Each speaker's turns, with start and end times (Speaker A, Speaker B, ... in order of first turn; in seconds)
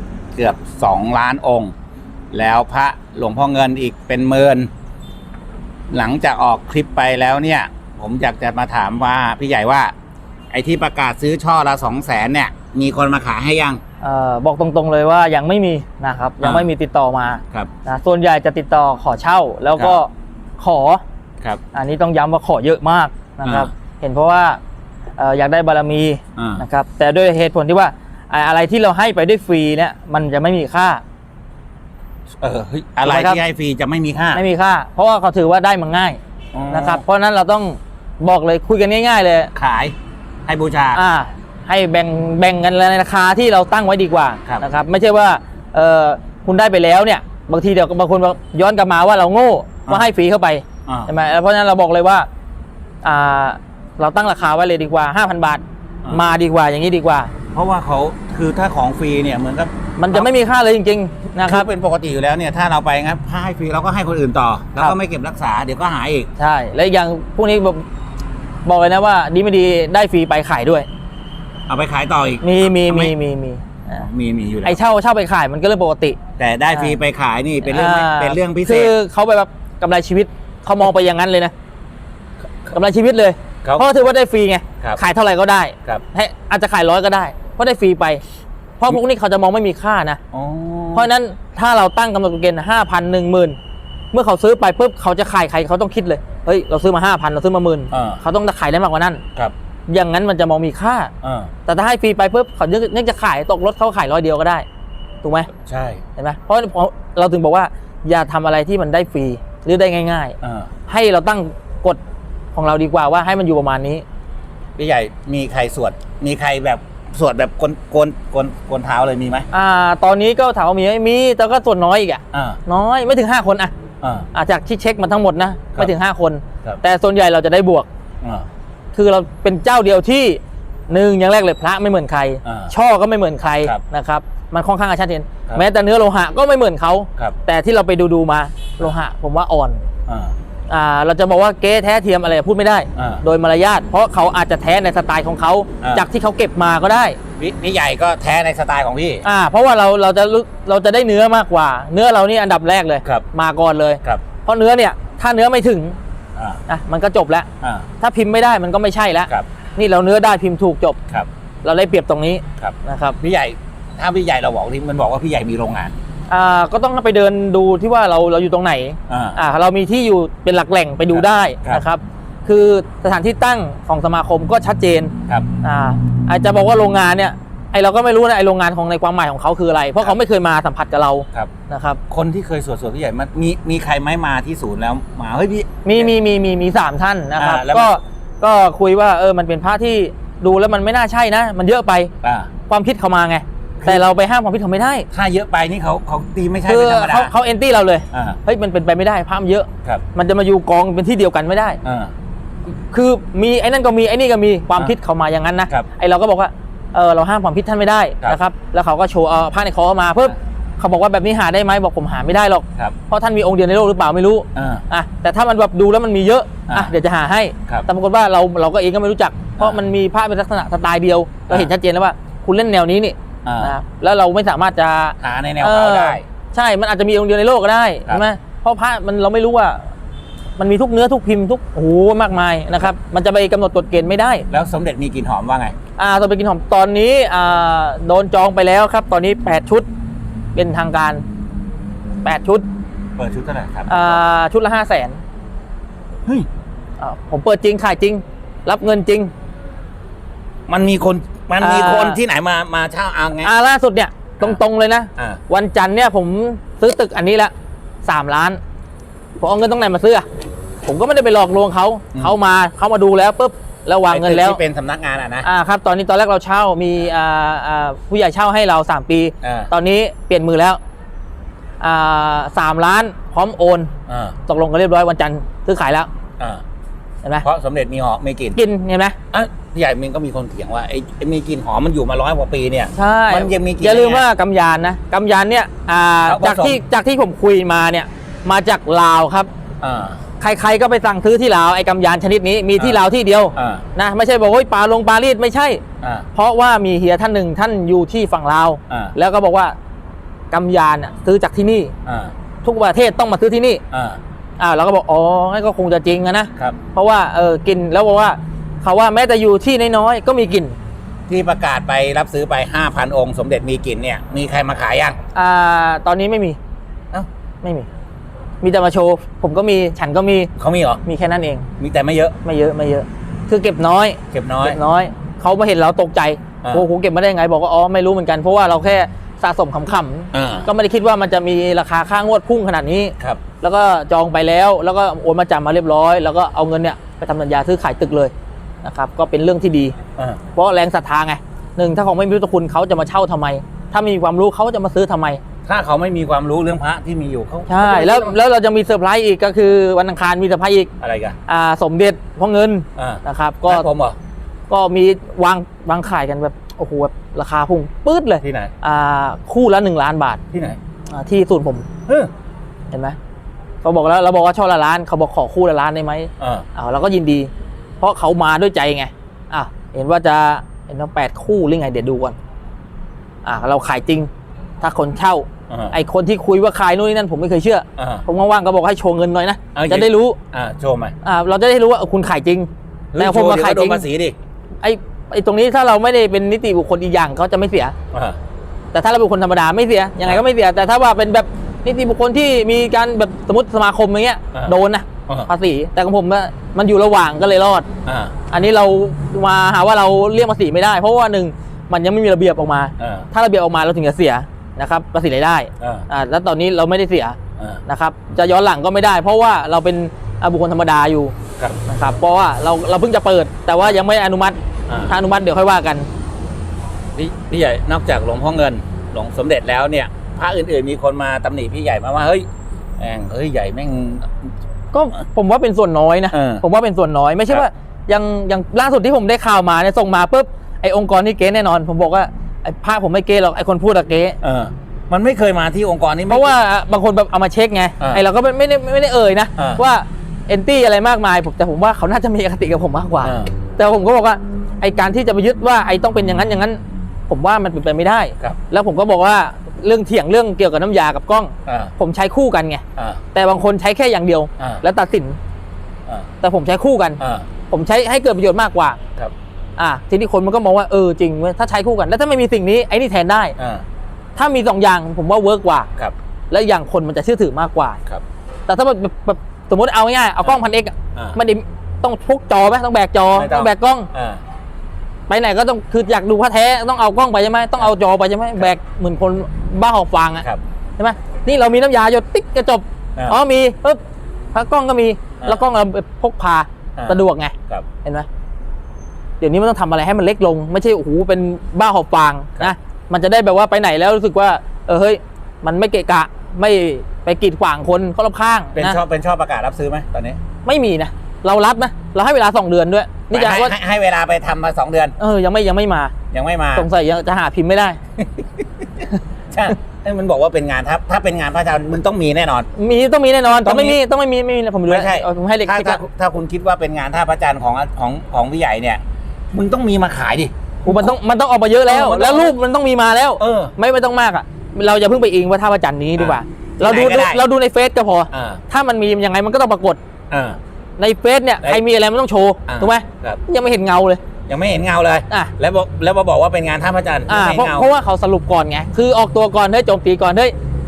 Speaker A: 0.3-1.7, 2.3-4.7, 5.9-9.9, 10.5-13.8, 16.4-16.7, 19.8-20.0, 23.4-23.7, 26.4-26.6, 32.4-34.4, 36.5-37.0, 39.5-39.9, 40.5-41.0, 50.9-51.1, 57.5-60.3, 61.4-66.3, 71.7-73.2, 74.0-74.8, 76.4-78.9, 90.3-91.1, 97.9-98.2, 101.2-101.5, 105.7-106.0, 110.4-110.7, 114.8-119.5, 122.3-122.6, 124.0-124.3, 128.2-128.5, 132.4-132.7, 140.1-140.3, 143.0-143.2, 145.8-146.1, 147.4-149.2, 157.6-157.9, 162.6-165.9, 169.1-169.4, 171.1-171.8, 182.1-186.1, 187.4-188.0, 192.2-192.5, 193.8-194.1, 195.1-197.3, 198.1-198.4, 201.8-202.1, 214.6-214.8, 223.4-223.7, 225.2-226.2, 234.5-235.8, 243.2-244.2, 250.7-253.5, 264.1-265.5, 269.4-269.7, 274.1-274.4, 277.4-278.6, 279.3-284.3, 286.2-286.8, 289.8-290.2, 292.8-293.0, 293.6-293.8, 296.0-296.3, 298.9-299.1, 302.1-302.3, 303.9-304.2, 311.3-315.2, 320.6-321.0, 321.8-322.4, 324.3-324.8, 330.3-330.7, 345.7-348.4, 351.0-351.4, 353.0-354.2, 358.4-358.7, 360.5-360.8, 366.4-366.7, 375.7-375.9, 378.0-378.2, 379.8-381.1, 383.1-384.4, 388.1-388.4, 398.1-398.4, 403.0-403.3, 405.8-406.1, 417.1-422.5, 423.0-424.3, 426.3-426.6, 434.4-436.5, 443.2-443.5, 451.7-451.9, 454.6-454.8, 457.2-457.5, 463.6-463.8, 473.3-474.4, 487.0-487.9, 498.7-500.4, 503.3-505.1, 506.3-506.9, 508.2-508.6, 509.5-512.7, 513.5-514.0, 514.9-519.0, 519.5-521.1, 521.9-522.6, 523.4-523.7, 526.2-527.5, 528.3-528.6, 530.3-530.6, 532.7-533.4, 534.5-537.9
Speaker B: 14.0-21.0, 21.7-24.6, 25.2-31.0, 33.0-33.4, 34.3-36.2, 36.7-39.5, 41.0-52.3, 53.0-57.3, 60.0-61.7, 66.4-67.8, 68.7-70.9, 72.4-74.1, 74.6-76.2, 76.7-77.0, 77.7-81.5, 82.7-88.2, 88.8-90.2, 90.9-93.6, 94.1-99.2, 99.9-101.1, 101.7-104.7, 105.2-105.5, 106.2-110.4, 110.9-112.0, 112.5-114.0, 119.5-123.7, 124.3-127.9, 128.9-139.8, 140.7-147.2, 149.2-156.0, 156.7-157.5, 158.0-161.0, 161.6-163.2, 166.3-182.0, 185.8-192.1, 192.7-195.1, 196.7-201.8, 202.9-229.9, 230.6-234.5, 236.0-239.8, 240.6-241.2, 242.2-242.6, 243.9-245.2, 247.0-249.3, 251.6-252.2, 253.4-257.5, 258.0-258.6, 259.4-260.2, 260.8-264.6, 265.4-270.8, 271.8-273.9, 274.5-276.1, 278.6-279.2, 282.9-289.5, 290.4-295.8, 296.4-299.8, 300.5-301.9, 302.6-303.8, 304.6-310.8, 315.3-316.6, 317.6-317.9, 318.6-320.5, 321.1-321.7, 322.4-338.3, 338.8-340.0, 340.6-345.4, 347.7-350.9, 351.5-353.9, 354.7-360.4, 361.1-361.9, 362.9-363.2, 363.8-367.5, 368.0-372.4, 373.4-374.3, 374.8-380.4, 381.2-384.1, 384.8-387.9, 388.9-397.9, 398.5-411.4, 411.9-416.1, 424.9-434.4, 436.3-452.8, 453.3-455.4, 456.4-459.0, 459.8-463.6, 464.4-465.9, 466.5-468.0, 468.7-474.1, 475.3-480.5, 481.0-484.0, 484.5-488.3, 489.4-499.0, 500.6-503.7, 505.2-506.1, 506.8-508.0, 512.8-516.0, 520.9-530.0, 531.0-534.2, 537.3-540.5